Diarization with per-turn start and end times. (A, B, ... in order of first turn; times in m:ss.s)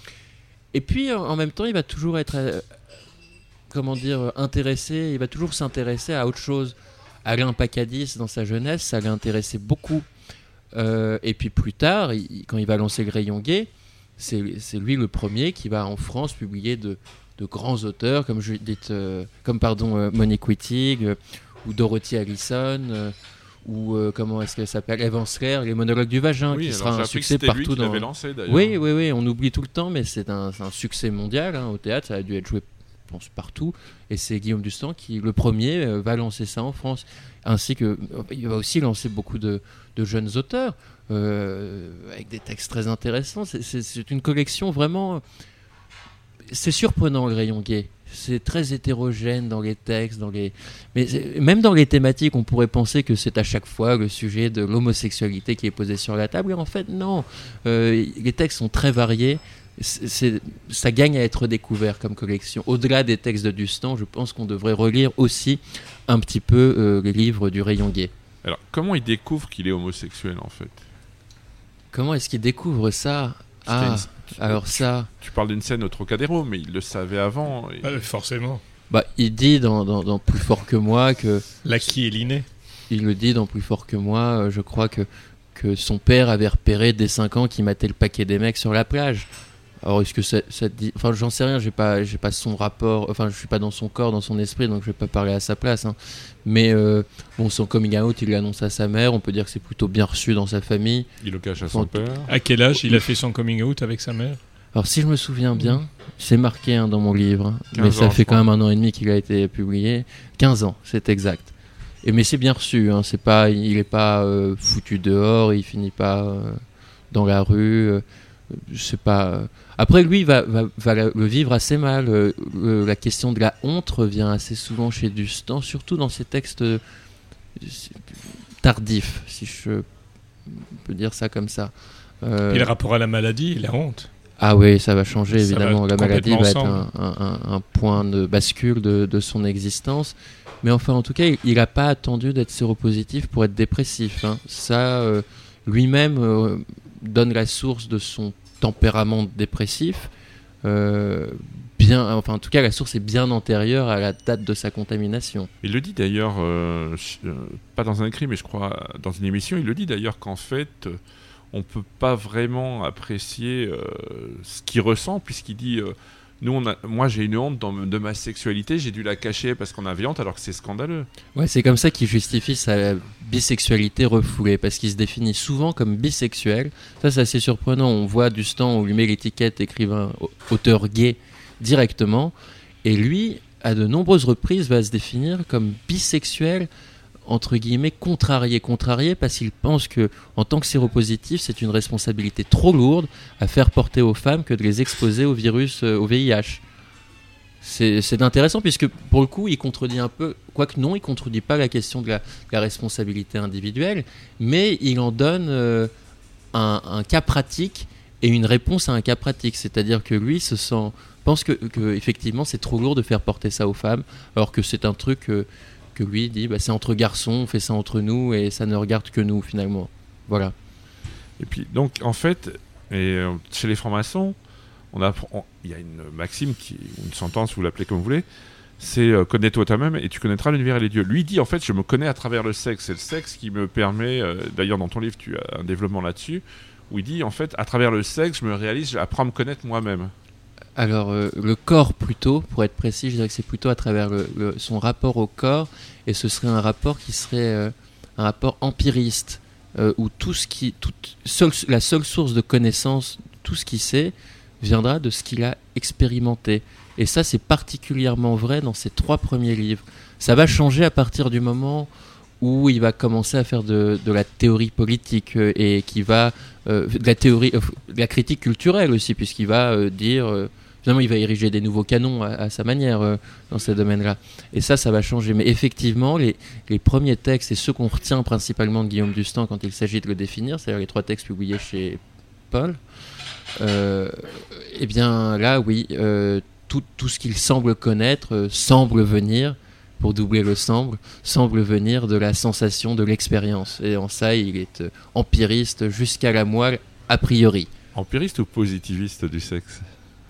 0:00.7-0:02.6 A
0:03.7-0:10.1 A
0:10.7-0:45.2 A
0:26.5-0:28.8 B
0:46.5-1:08.1 A
1:08.4-1:10.8 B
1:11.9-1:15.1 A
1:15.2-1:18.0 B
1:17.8-1:18.6 C
1:18.9-1:21.4 A
1:21.6-1:22.5 C
1:22.9-1:29.3 A
1:29.8-1:41.1 A
1:41.2-1:42.3 B
1:41.6-1:42.0 A
1:42.3-1:44.4 C
1:44.7-2:06.8 A
1:47.7-1:48.5 B
2:07.6-2:09.8 A
2:10.4-2:12.7 A
2:12.5-2:14.1 C
2:14.4-2:30.1 A
2:15.3-2:16.8 C
2:30.6-2:35.5 A
2:35.6-2:41.0 B
2:41.5-2:51.1 B
2:51.4-3:06.7 A
3:07.2-3:16.6 A
3:17.6-3:25.9 A
3:26.5-3:40.5 A
3:41.4-3:44.4 B
3:44.9-3:48.2 B
3:48.8-4:00.1 B
4:00.8-4:21.9 A
4:22.4-4:42.8 A
4:43.6-4:57.7 A
4:57.9-4:59.9 B